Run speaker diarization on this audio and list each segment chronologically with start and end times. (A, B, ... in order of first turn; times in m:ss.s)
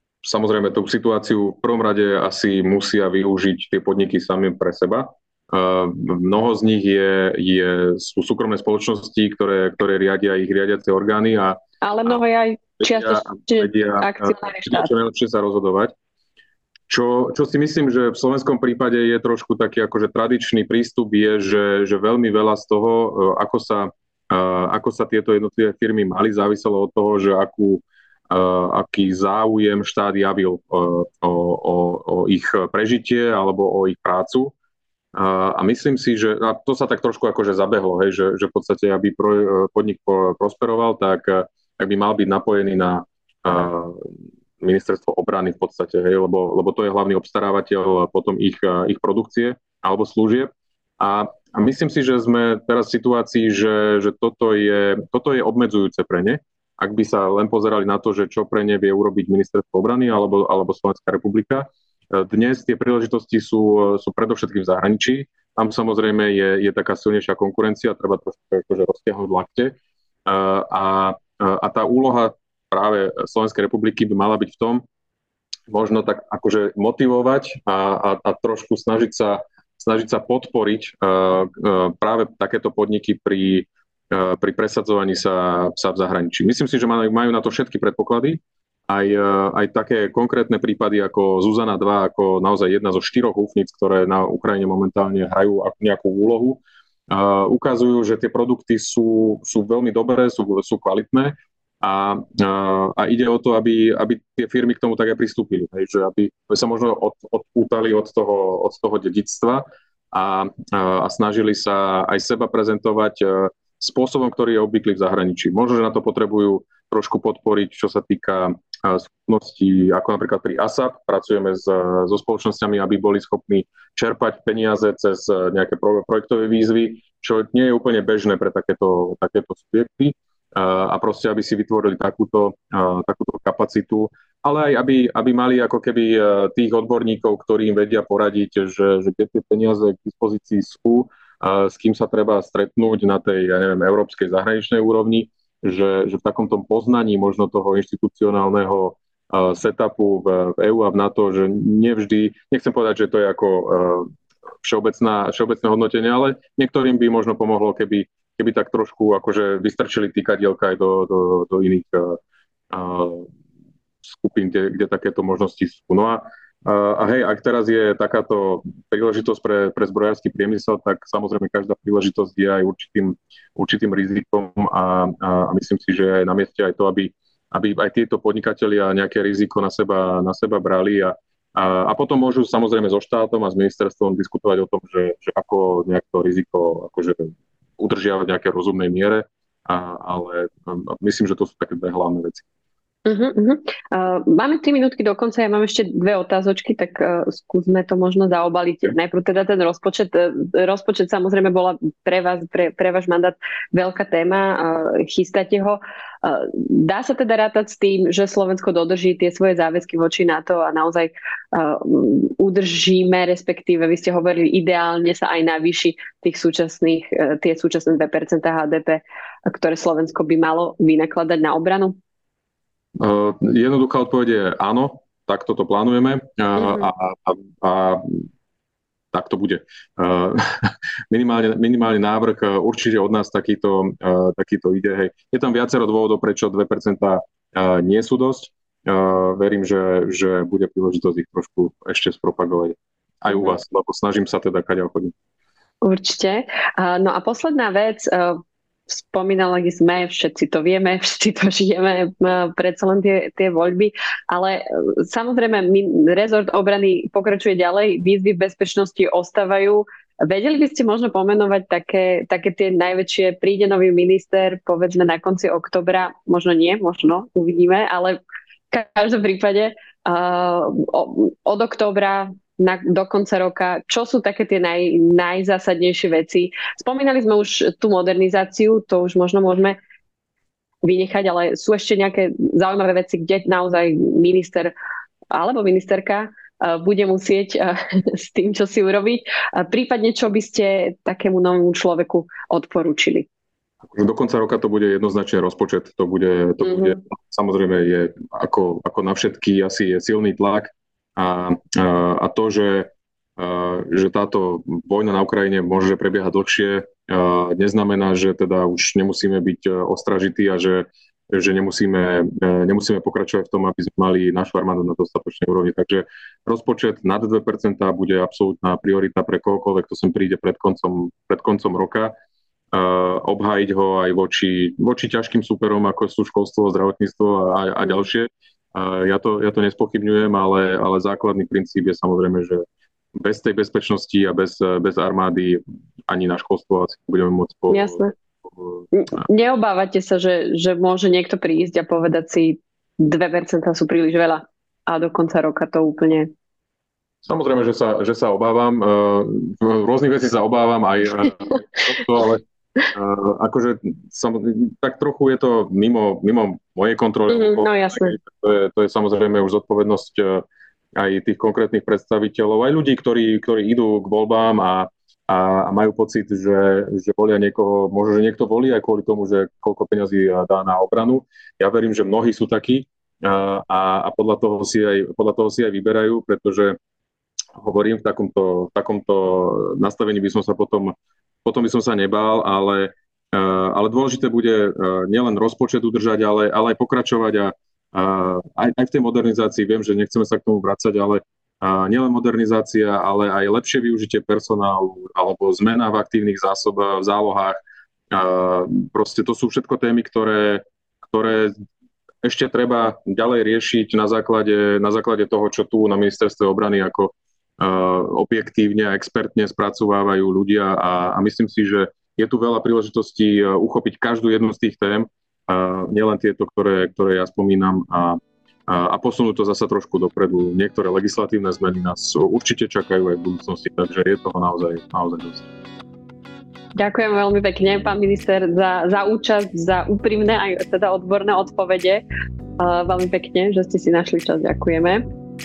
0:00.2-0:12.2 A
0:11.8-0:14.9 B
0:12.8-0:15.9 A
0:16.9-0:34.5 A
0:35.1-1:14.8 A
1:15.7-2:34.1 A
2:34.6-2:42.2 A
2:42.7-2:43.3 A
2:44.0-3:12.4 A
3:13.0-3:42.0 B
3:43.0-3:48.3 A
3:46.6-3:46.9 B
3:49.1-4:05.1 A
4:05.8-4:28.2 B
4:28.7-4:39.8 B
4:40.8-4:44.7 B
4:45.3-4:53.3 B
4:53.9-5:22.1 A
4:56.6-4:57.0 B
5:22.7-5:32.6 A
5:33.1-5:39.2 A
5:37.7-5:38.1 B
5:38.9-5:46.3 B
5:47.2-6:16.8 A
5:57.3-5:58.2 B
6:17.6-6:20.9 A
6:21.4-6:37.6 A
6:38.1-6:41.6 A
6:42.2-7:05.5 A
7:06.8-7:12.0 B
7:12.6-7:15.0 B